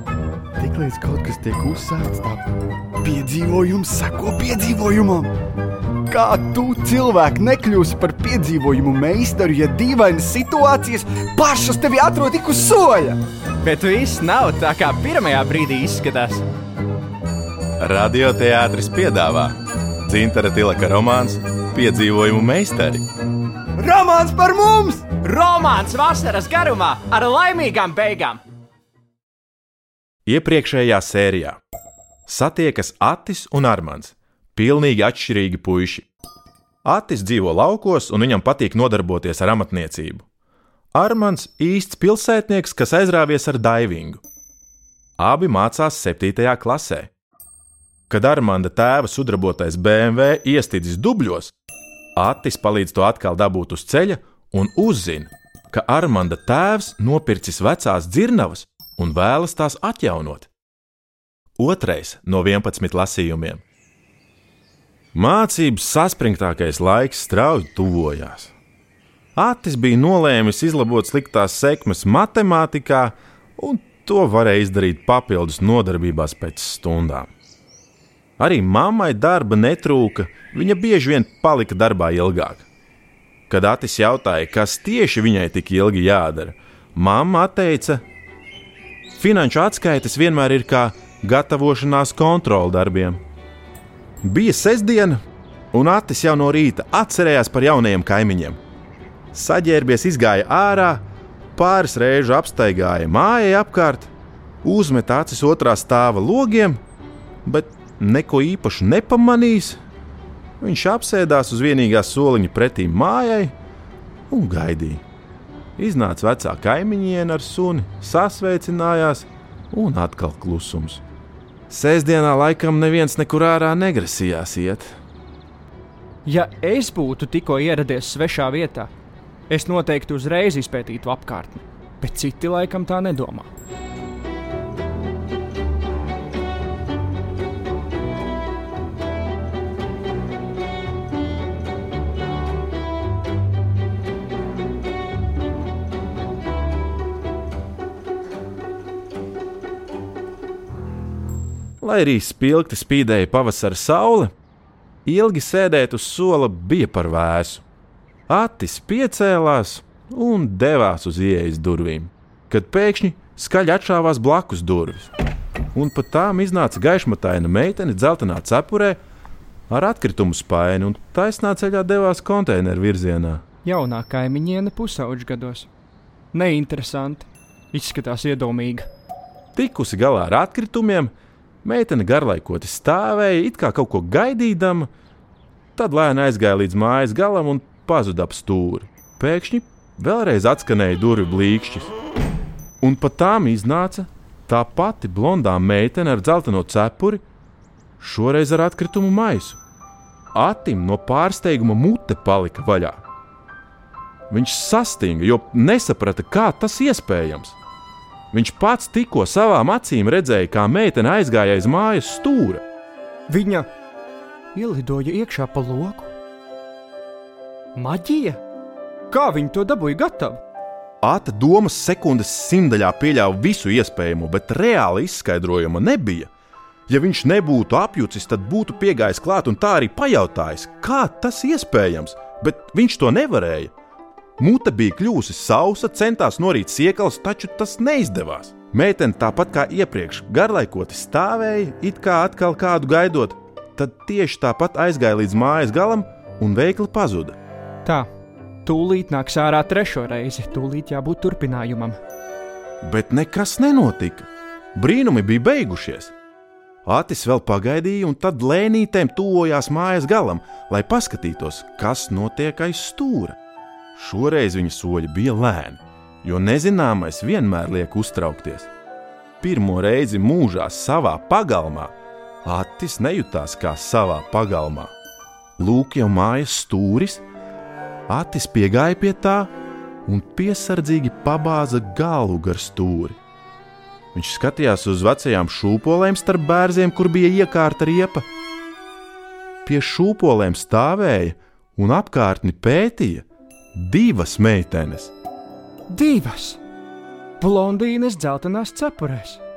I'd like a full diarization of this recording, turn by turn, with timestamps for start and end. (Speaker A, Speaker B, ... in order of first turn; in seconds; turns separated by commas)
Speaker A: 0.6-2.5, Speaker A: 3.0-5.3, Speaker A: 6.1-13.2, Speaker B: 13.6-16.4, Speaker C: 17.8-19.5, Speaker C: 20.1-23.1, Speaker A: 23.8-25.1, Speaker B: 25.2-28.4, Speaker C: 30.3-31.6, Speaker C: 32.3-36.1, Speaker C: 36.9-40.2, Speaker C: 41.0-44.2, Speaker C: 45.2-47.1, Speaker C: 48.1-51.5, Speaker C: 52.2-60.5, Speaker C: 61.6-63.6, Speaker C: 65.2-68.5, Speaker C: 69.4-77.3, Speaker C: 78.4-82.7, Speaker C: 83.5-88.0, Speaker C: 89.2-93.2, Speaker C: 94.2-95.2, Speaker C: 95.7-98.6, Speaker C: 99.3-101.0, Speaker C: 101.6-104.1, Speaker C: 104.6-106.8, Speaker C: 107.5-109.8, Speaker C: 110.6-113.5, Speaker C: 114.3-115.0, Speaker C: 115.8-121.0, Speaker C: 121.7-125.0, Speaker B: 126.3-128.9, Speaker B: 129.5-133.5, Speaker C: 151.8-154.3, Speaker C: 155.1-157.6, Speaker C: 158.3-165.1, Speaker C: 165.7-169.0, Speaker C: 169.7-173.4, Speaker B: 173.7-175.7, Speaker B: 176.3-178.9, Speaker C: 179.6-181.1, Speaker C: 181.6-184.9, Speaker C: 185.8-191.9, Speaker C: 192.8-197.2, Speaker C: 198.0-199.6, Speaker C: 200.3-203.0, Speaker C: 204.3-207.6, Speaker C: 208.3-212.6, Speaker B: 213.3-213.7, Speaker B: 214.5-216.1, Speaker B: 217.8-218.4, Speaker B: 219.1-220.4, Speaker C: 221.0-226.3, Speaker C: 226.9-233.7, Speaker C: 234.4-247.4, Speaker B: 248.7-252.0, Speaker C: 252.8-256.1, Speaker C: 256.9-263.4, Speaker C: 264.0-268.7, Speaker C: 269.4-271.9, Speaker C: 272.4-274.9, Speaker C: 275.6-277.2, Speaker C: 278.1-279.5, Speaker C: 280.1-283.2, Speaker C: 284.1-288.3, Speaker C: 289.6-295.1, Speaker B: 295.9-296.6, Speaker B: 297.4-299.4